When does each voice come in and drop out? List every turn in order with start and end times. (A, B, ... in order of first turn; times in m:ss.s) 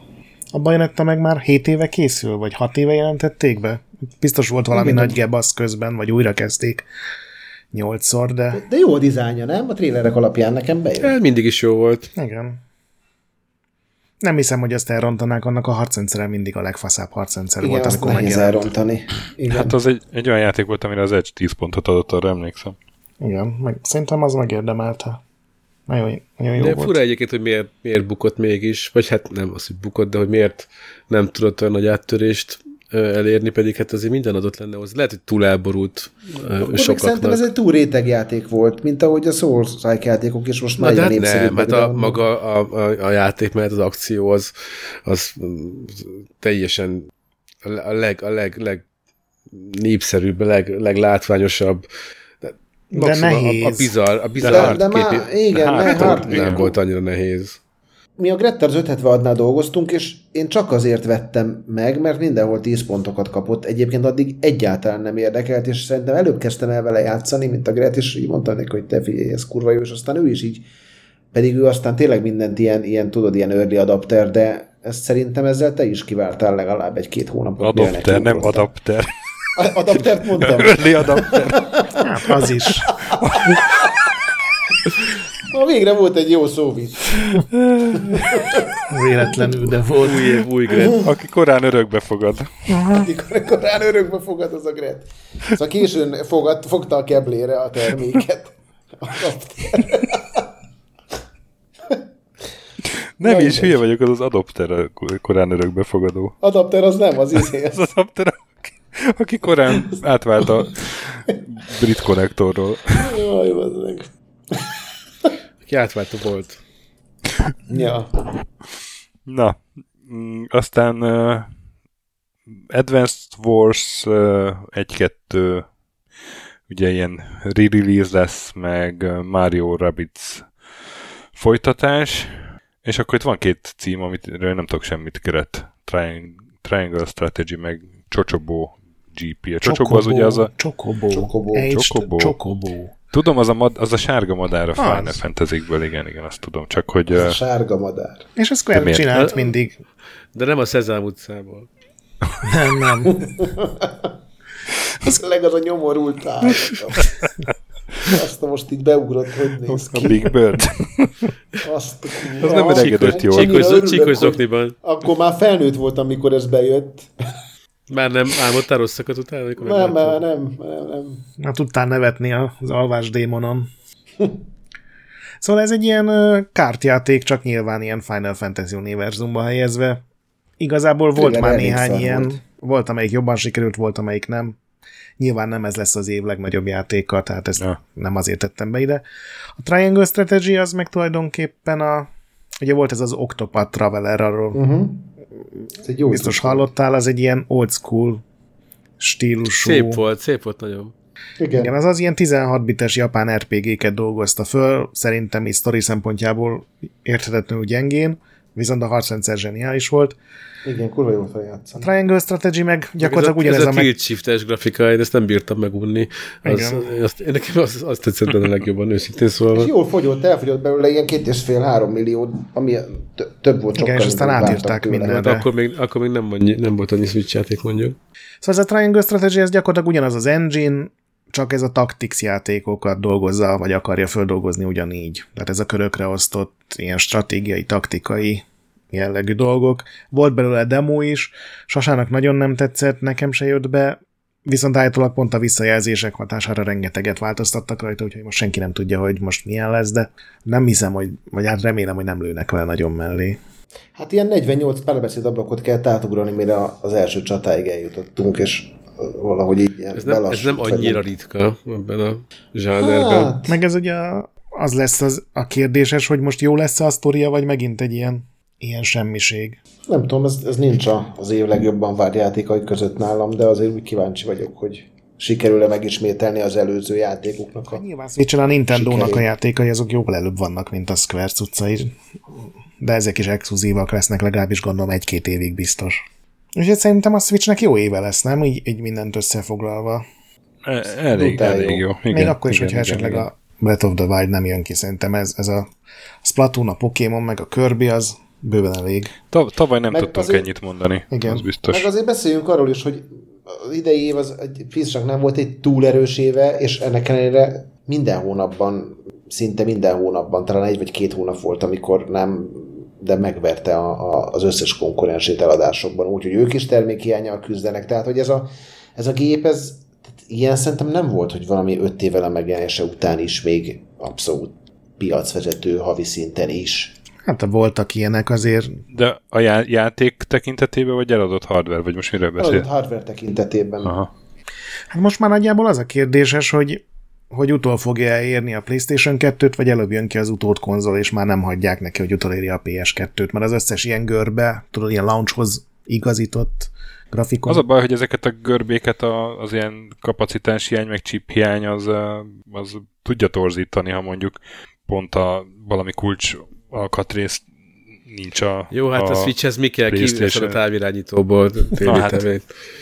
0:00.5-0:06.8 A
0:04.7-0:05.2 B
0:07.7-0:08.6 A
0:08.5-0:11.1 B
0:11.0-0:12.1 C
0:12.2-0:12.6 A
0:14.2-0:18.7 A
0:17.6-0:19.8 B
0:19.5-0:22.8 D
0:23.2-0:25.2 A
0:25.9-0:27.0 A
0:26.6-0:37.4 C
0:36.6-0:42.2 B
0:40.8-0:44.5 C
0:45.0-0:47.1 C
0:47.6-0:48.8 C
0:49.5-0:51.8 C
0:52.4-0:57.6 C
0:52.9-0:53.9 A
0:54.4-0:54.8 D
0:54.4-0:56.8 B
0:55.5-0:56.6 D
0:58.2-1:10.6 B
1:11.3-1:18.7 B
1:17.6-1:19.1 D
1:19.6-1:22.0 B
1:20.4-1:21.8 D
1:22.0-1:22.9 A
1:22.7-1:24.1 B
1:23.3-1:23.6 D
1:25.5-1:28.7 B
1:27.6-1:28.2 D
1:28.8-1:30.4 A
1:30.0-1:31.0 C
1:30.7-1:31.0 B
1:30.8-1:32.5 D
1:32.7-1:33.1 A
1:32.9-1:40.5 B
1:43.2-1:46.4 D
1:43.2-1:43.8 B
1:46.4-1:47.8 B
1:47.7-1:53.1 D
1:53.0-1:54.7 B
1:55.6-1:56.6 C
1:57.7-1:58.1 B
1:59.2-2:01.5 D
2:02.7-2:05.6 D
2:06.7-2:10.5 D
2:11.3-2:20.5 D
2:19.6-2:22.9 A
2:21.1-2:21.7 B
2:21.7-2:22.3 D
2:23.1-2:27.4 D
2:24.8-2:25.2 A
2:27.1-2:28.3 B
2:28.4-2:29.8 A
2:28.7-2:29.0 D
2:29.1-2:29.5 C
2:30.3-2:31.7 C
2:32.4-2:33.1 A
2:33.0-2:34.1 B
2:35.0-2:37.1 B
2:38.0-2:40.3 B
2:39.7-2:41.3 D
2:41.6-2:47.1 B
2:42.4-2:43.6 D
2:42.5-2:44.7 C
2:47.9-2:50.2 C
2:49.6-2:51.2 B
2:51.4-2:53.7 A
2:55.4-3:00.0 A
3:00.6-3:04.6 A
3:01.1-3:02.4 B
3:05.2-3:09.0 A
3:09.6-3:12.1 A
3:12.6-3:14.6 A
3:14.5-3:15.1 B
3:15.8-3:16.7 B
3:16.1-3:18.2 A
3:19.0-3:20.0 A
3:19.6-3:20.9 C
3:21.4-3:21.7 B
3:21.6-3:30.2 A
3:30.6-3:31.9 B
3:31.8-3:33.9 A
3:33.0-3:39.7 C
3:36.4-3:36.9 A
3:39.5-3:45.3 B
3:43.7-3:45.5 A
3:45.1-3:48.0 C
3:48.4-4:13.4 A
4:14.0-4:21.0 B
4:19.9-4:23.3 C
4:22.8-4:23.6 B
4:23.5-4:29.6 A
4:29.9-4:37.8 B
4:37.7-4:41.9 A
4:38.7-4:39.2 B
4:42.8-4:46.0 A
4:46.5-4:50.0 A
4:50.6-4:53.3 D
4:51.1-4:51.9 B
4:52.1-4:55.7 A
4:56.2-4:59.1 A
4:59.3-5:01.9 D
4:59.9-5:00.5 B
5:01.1-5:01.4 A
5:01.7-5:27.0 B
5:27.2-5:28.8 A
5:28.9-5:32.6 D
5:32.4-5:34.0 B
5:33.8-5:34.1 D
5:34.9-5:47.6 A
5:47.5-5:57.4 D
5:58.1-5:59.3 D
5:58.7-6:02.4 C
5:59.9-6:00.6 D
6:01.8-6:02.2 D